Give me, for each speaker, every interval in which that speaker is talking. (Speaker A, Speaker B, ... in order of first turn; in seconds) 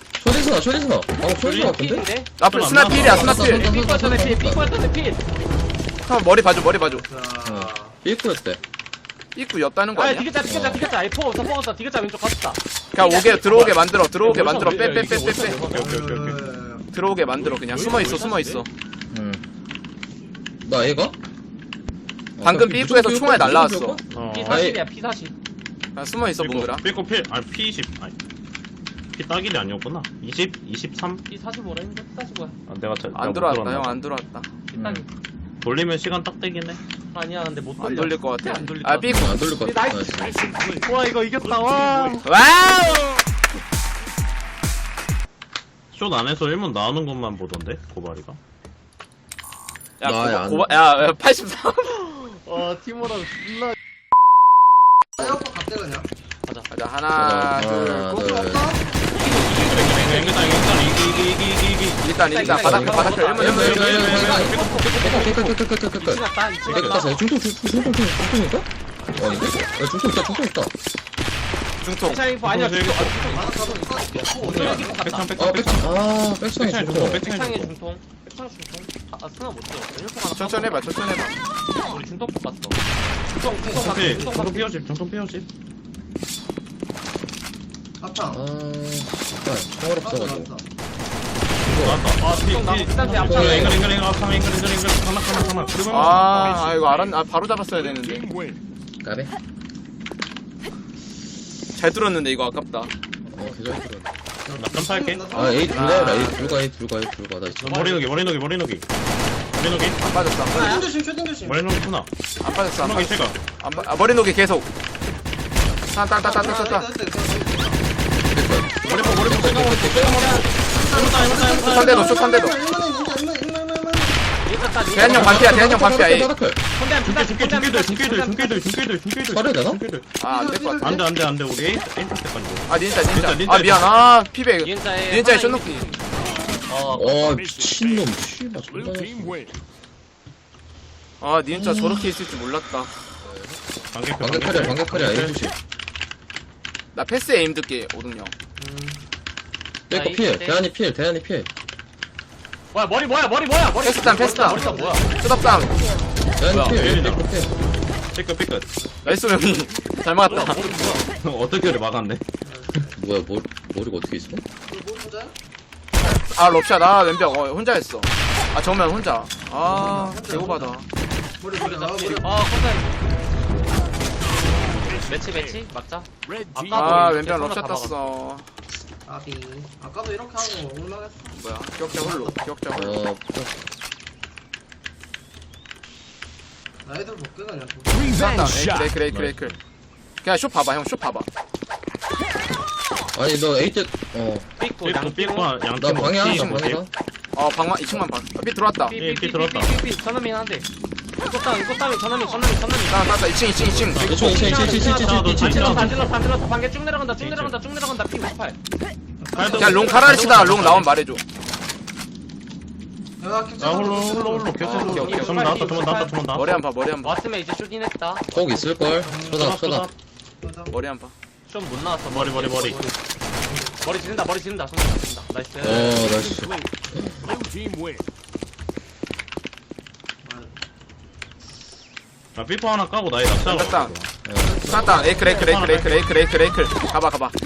Speaker A: 0.2-2.0, 2.9-4.7, 7.4-8.6, 10.4-10.8, 19.1-19.4, 20.6-21.1, 22.4-24.8, 34.7-35.0, 39.0-40.4, 50.0-50.8, 57.1-58.7, 62.5-70.7, 75.4-77.2, 88.3-90.5, 91.6-92.0, 93.2-93.8, 99.0-99.3, 103.3-104.1, 105.3-107.8, 118.3-120.3, 125.2-126.6, 129.3-129.8, 136.9-139.5, 141.5-142.1, 143.2-145.5, 149.9-151.5, 156.4-157.5, 162.9-164.4, 182.7-183.6, 189.1-189.5, 193.1-194.5, 195.8-196.9, 204.0-206.0, 218.3-219.9, 225.6-227.3, 234.2-235.0
Speaker B: 1.4-2.3, 2.9-5.2, 9.9-15.9, 17.4-18.6, 24.2-25.3, 31.3-32.6, 34.7-35.1, 37.1-42.3, 52.2-53.7, 59.1-60.7, 62.2-67.1, 69.0-69.8, 72.0-75.3, 77.2-80.8, 81.8-84.7, 92.2-93.8, 107.6-108.2, 110.5-110.9, 119.9-120.6, 124.4-125.5, 126.7-128.7, 134.6-136.1, 136.7-137.2, 149.9-150.6, 152.7-155.0, 160.3-161.1, 171.6-173.0, 174.8-178.1, 194.6-195.5, 198.8-200.7, 201.2-203.3, 204.0-208.6, 209.8-210.9, 214.9-216.2, 217.0-218.3, 221.4-223.0, 223.8-226.2
Speaker C: 1.4-1.7, 2.4-3.4, 15.5-16.4, 24.1-24.6, 26.4-28.1, 29.1-31.2, 32.7-34.0, 35.6-36.8, 45.9-48.4, 59.5-65.5, 66.7-67.1, 72.4-73.2, 74.4-75.9, 76.5-77.7, 83.7-85.5, 91.6-96.8, 104.5-105.4, 107.6-108.8, 109.5-110.0, 111.4-112.1, 112.8-113.5, 118.8-122.1, 125.0-125.7, 127.0-130.1, 130.8-133.9, 143.9-145.5, 156.6-157.3, 158.1-158.7, 161.2-162.2, 194.8-196.8, 199.0-199.7, 203.6-206.0, 207.2-207.6, 209.3-210.8, 213.6-216.6, 219.2-219.9, 222.1-222.8, 232.3-234.1, 234.8-236.1
Speaker D: 2.4-3.7, 6.0-7.0, 9.3-10.3, 12.9-15.6, 16.9-18.7, 22.4-24.0, 25.9-26.8, 33.1-34.5, 37.8-39.4, 42.2-43.2, 50.0-52.2, 56.7-58.2, 62.0-64.0, 71.8-72.3, 80.3-81.4, 95.9-98.3, 101.8-102.9, 105.6-106.6, 110.0-110.8, 112.4-114.7, 115.9-116.9, 121.5-122.6, 124.9-126.3, 130.2-131.0, 132.7-135.9, 141.2-143.0, 146.9-148.3, 153.8-155.9, 156.5-156.8, 159.0-160.8, 166.3-170.8, 176.7-178.4, 181.3-183.0, 188.1-189.6, 190.2-191.3, 197.3-198.9, 202.9-204.1, 209.5-211.2, 214.6-215.6, 216.3-217.2, 220.7-221.1, 233.4-233.9, 234.7-237.3
Speaker E: 6.8-8.0, 15.7-16.9, 55.2-56.1, 58.1-58.8, 73.2-74.9, 83.6-84.5, 88.0-88.4, 90.0-90.6, 104.4-106.4, 110.5-111.7, 116.2-117.8, 120.7-124.2, 130.2-131.1, 148.6-149.0, 154.0-155.2, 158.8-159.2, 162.4-163.0, 164.7-165.3, 169.6-170.7, 171.4-172.3, 179.1-182.5, 186.8-188.3, 209.2-210.2, 213.2-215.2, 218.8-219.5, 220.4-220.8, 223.4-223.9, 230.2-230.5, 234.4-235.4